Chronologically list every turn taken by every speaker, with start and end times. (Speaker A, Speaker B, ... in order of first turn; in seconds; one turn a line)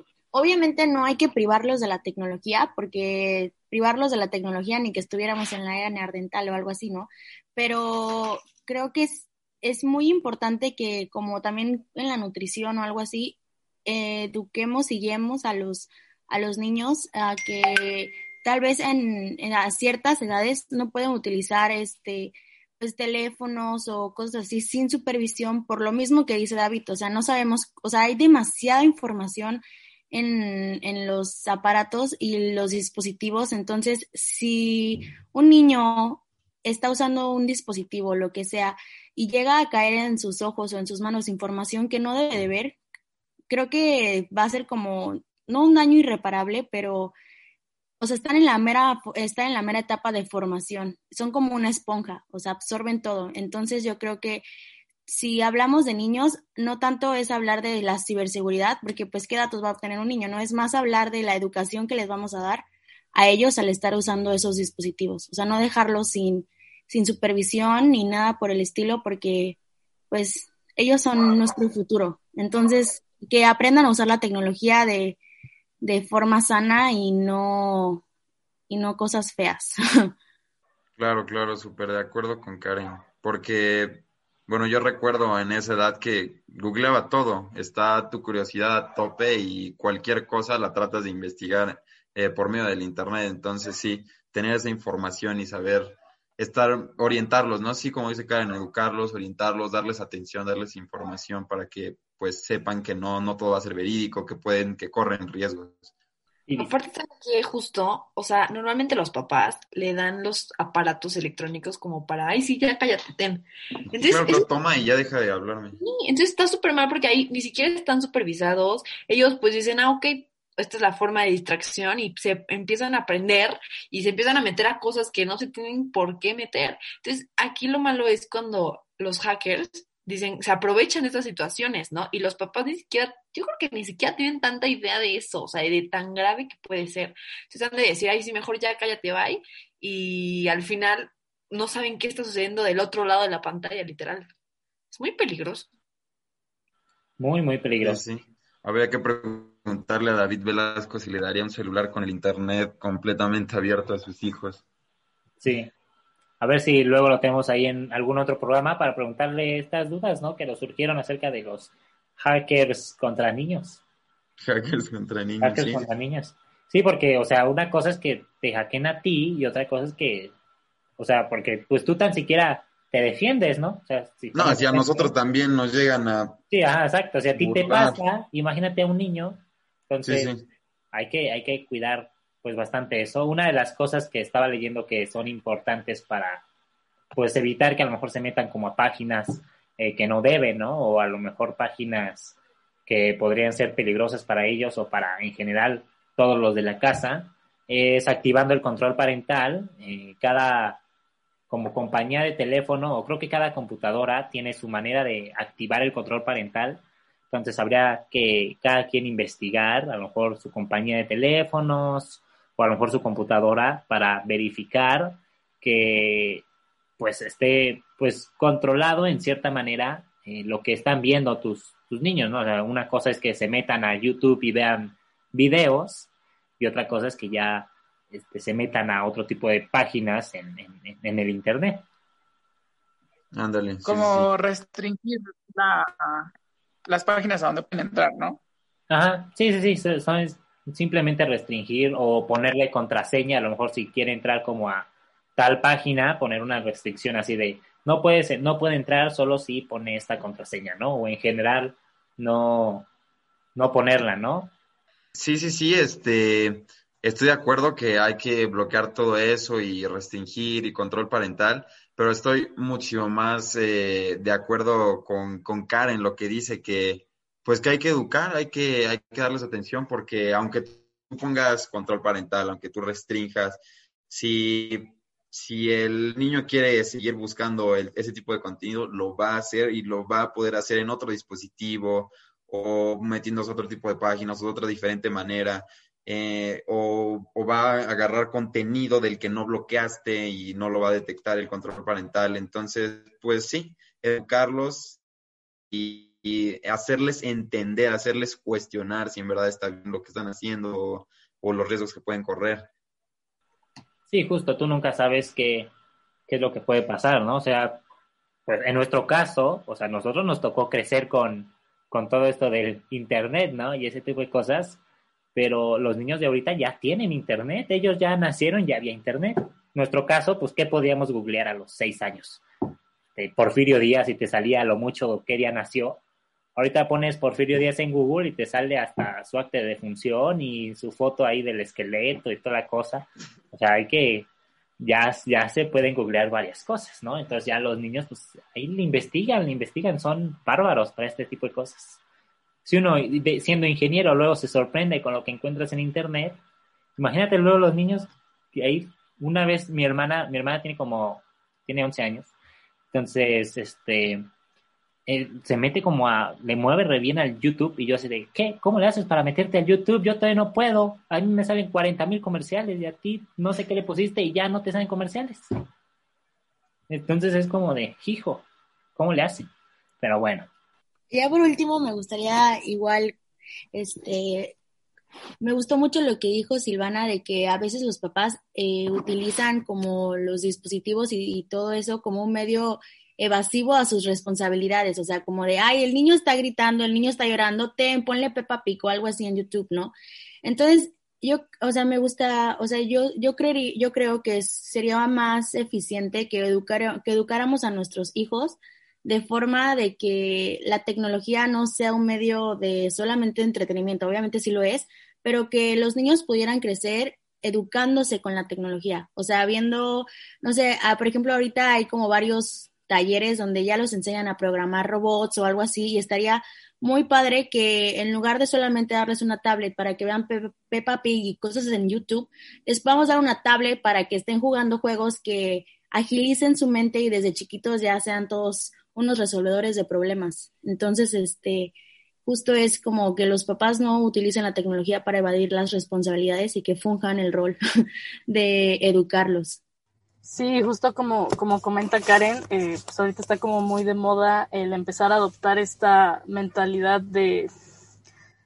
Speaker A: 0.3-42.8
Speaker A: 43.5-47.1
Speaker A: 48.0-54.4
Speaker A: 55.1-69.6
Speaker A: 70.1-75.2
Speaker A: 75.8-78.0
Speaker A: 78.7-80.1
Speaker B: 81.0-105.9
Speaker C: 106.5-106.7
Speaker D: 106.6-114.5
Speaker B: 114.1-115.8
Speaker D: 115.8-144.3
Speaker D: 144.9-145.7
Speaker C: 147.2-148.0
Speaker B: 147.8-154.6
Speaker C: 155.4-155.7
Speaker C: 156.4-163.8
Speaker B: 164.4-165.9
Speaker C: 165.4-170.3
Speaker C: 171.0-175.1
Speaker B: 174.3-176.4
Speaker C: 176.5-180.3
Speaker B: 177.3-178.0
Speaker B: 180.0-180.4
Speaker C: 180.9-186.4
Speaker C: 187.2-200.8
Speaker C: 201.5-216.4
Speaker C: 217.0-226.1
Speaker C: 226.6-231.8
Speaker B: 233.3-234.3
Speaker E: 233.8-236.3
Speaker E: 236.9-238.4
Speaker C: 238.9-252.9
Speaker C: 253.6-254.5
Speaker B: 255.2-295.0
Speaker B: 295.7-302.7
Speaker C: 304.1-305.7
Speaker C: 306.3-307.8
Speaker C: 308.5-314.8
Speaker C: 315.4-322.4
Speaker C: 323.2-326.0
Speaker C: 326.6-334.3
Speaker C: 334.8-342.0
Speaker C: 342.7-346.4
Speaker C: 347.0-352.3
Speaker C: 352.9-354.3
Speaker C: 355.1-365.4
Speaker C: 366.9-368.4
Speaker C: 369.0-369.5
Speaker C: 370.0-370.5
Speaker A: 371.1-373.2
Speaker A: 373.7-374.6
Speaker A: 375.4-431.7
Speaker A: 432.3-437.6
Speaker A: 438.3-439.6
Speaker F: 440.2-447.5